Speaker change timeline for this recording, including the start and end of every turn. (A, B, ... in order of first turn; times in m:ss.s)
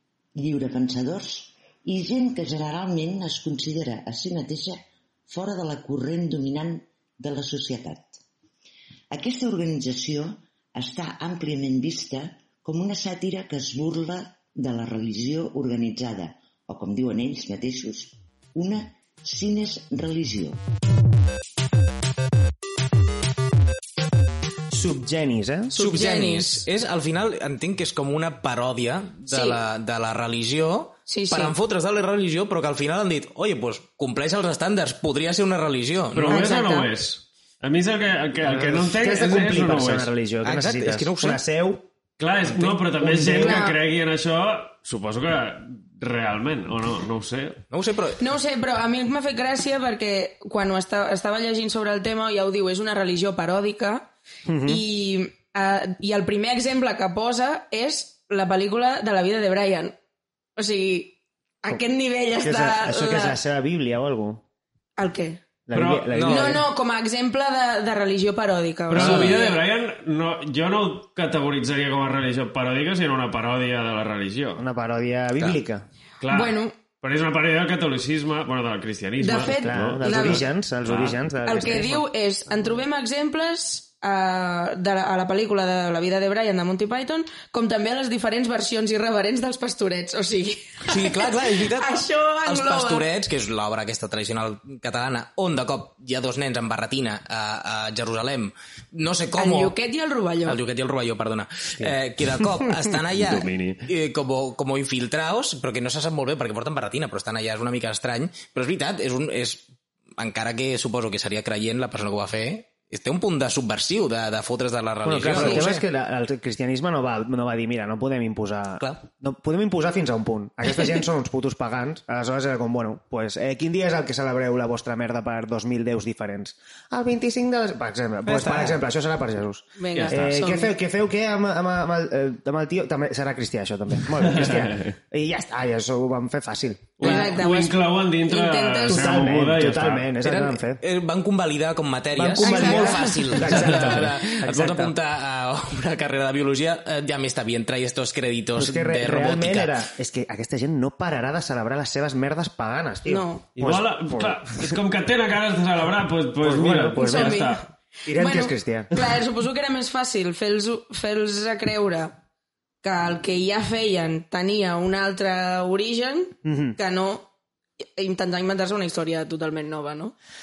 0:00.4-0:08.2 A
0:09.1-0:20.6 A
0:24.7-0:25.7 B
0:25.7-0:26.7 C
0:25.7-0:36.4 D
0:29.3-0:29.6 C
0:31.1-0:31.5 C
0:36.1-0:40.1 E
0:36.3-0:36.9 C
0:38.4-0:41.9 B
0:40.4-0:41.4 D
0:42.2-0:47.6 E
0:42.9-0:43.6 B
0:43.3-0:43.8 C
0:47.7-0:48.2 D
0:48.2-0:54.1 C
0:54.4-0:54.8 B
0:54.6-1:00.0 C
1:00.6-1:03.4 C
1:02.4-1:04.4 B
1:05.0-1:05.4 C
1:05.7-1:06.6 B
1:05.7-1:06.2 E
1:06.1-1:06.6 D
1:06.2-1:09.6 C
1:08.9-1:14.6 E
1:08.9-1:09.4 D
1:14.6-1:15.8 B
1:16.2-1:21.2 E
1:16.3-1:16.8 C
1:19.2-1:20.4 C
1:19.6-1:22.0 B
1:21.4-1:33.0 C
1:30.9-1:39.7 D
1:39.4-1:40.6 C
1:40.4-1:55.8 D
1:43.1-1:43.9 E
1:55.0-2:17.2 B
1:58.8-1:59.0 D
2:08.2-2:08.8 D
2:09.8-2:10.7 C
2:14.2-2:14.9 E
2:17.0-2:20.1 E
2:17.0-2:19.0 C
2:18.9-2:20.8 B
2:20.2-2:29.8 D
2:22.1-2:24.9 B
2:22.4-2:23.6 C
2:23.7-2:24.0 E
2:28.5-2:34.8 B
2:33.0-2:33.4 C
2:33.6-2:37.6 E
2:36.4-2:37.5 B
2:36.9-2:42.2 C
2:38.0-2:38.9 B
2:42.8-2:47.3 C
2:46.4-2:46.8 B
2:48.0-2:50.1 C